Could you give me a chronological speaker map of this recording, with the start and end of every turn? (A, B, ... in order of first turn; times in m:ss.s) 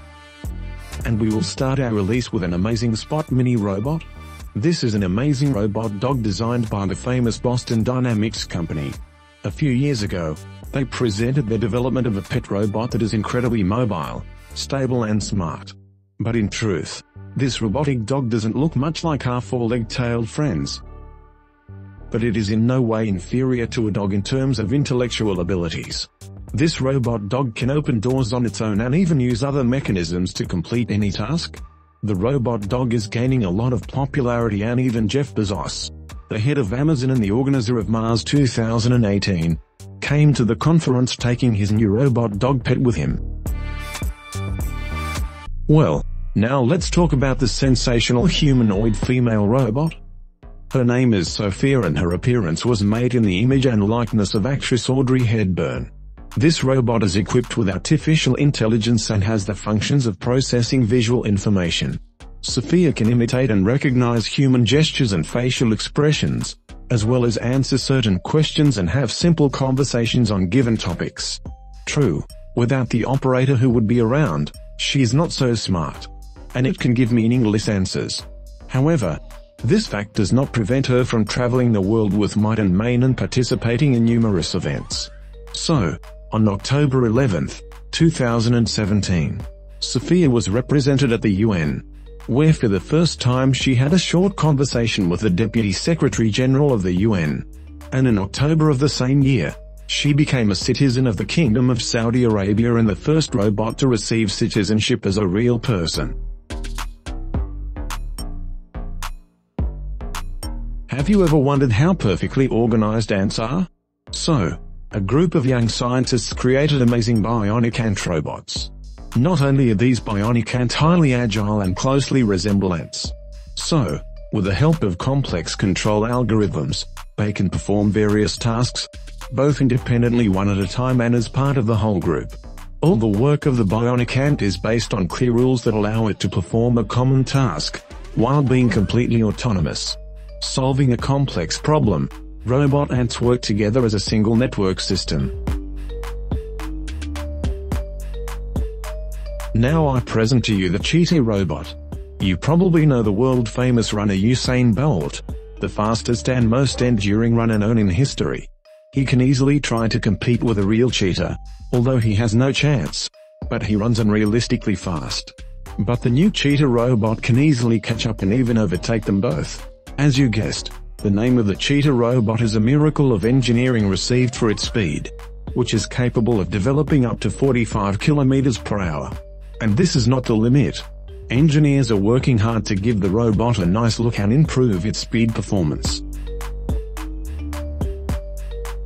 0:01.0-0:20.8 A
0:22.1-0:43.2 A
0:45.7-0:50.0 A
0:50.7-1:46.2 A
1:50.9-2:25.4 A
2:29.5-3:06.0 A